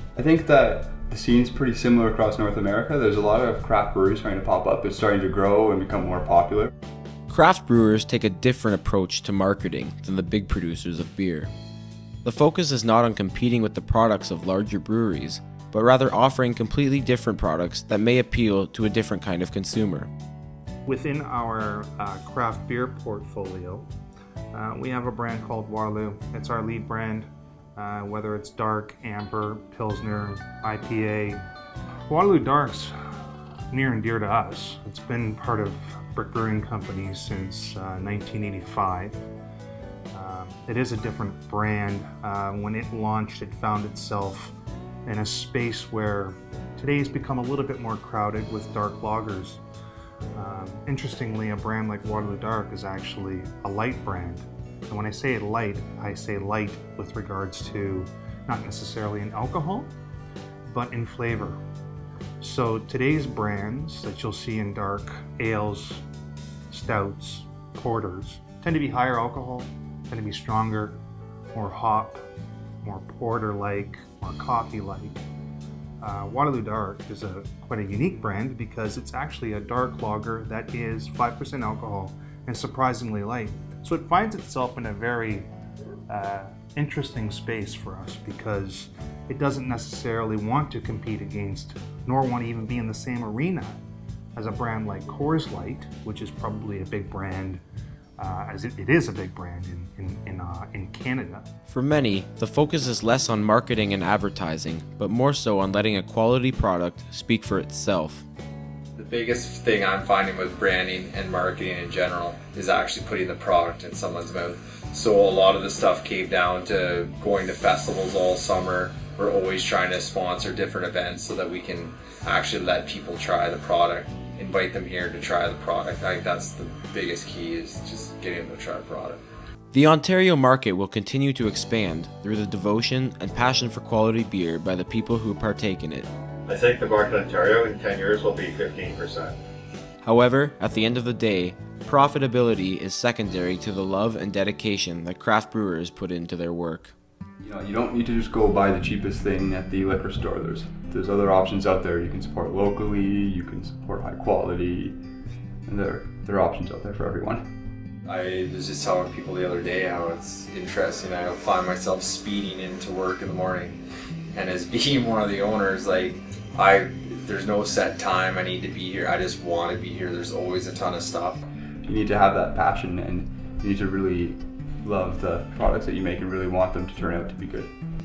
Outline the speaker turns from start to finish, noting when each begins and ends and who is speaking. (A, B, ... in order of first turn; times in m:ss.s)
0:00.2-0:06.7 A
0:07.3-0:11.5 B
0:12.2-0:20.1 B
0:20.9-0:23.9 C
0:24.5-0:31.4 C
0:32.1-0:33.0 C
0:33.7-0:39.2 C
0:40.1-0:44.6 C
0:45.1-0:49.6 C
0:50.4-0:59.9 C
1:00.7-1:01.6 C
1:02.4-1:06.0 C
1:06.7-1:11.0 C
1:11.5-1:12.3 C
1:12.8-1:15.2 C
1:16.0-1:25.5 C
1:26.1-1:33.8 C
1:34.4-1:37.6 C
1:38.2-1:41.5 C
1:41.7-1:48.3 B
1:49.0-2:09.2 D
2:09.7-2:16.1 B
2:16.5-2:19.4 E
2:20.0-2:27.0 B
2:27.4-2:35.0 A
2:35.7-2:37.5 A
2:38.0-2:43.8 D
2:44.3-2:51.5 D
2:51.8-2:57.7 A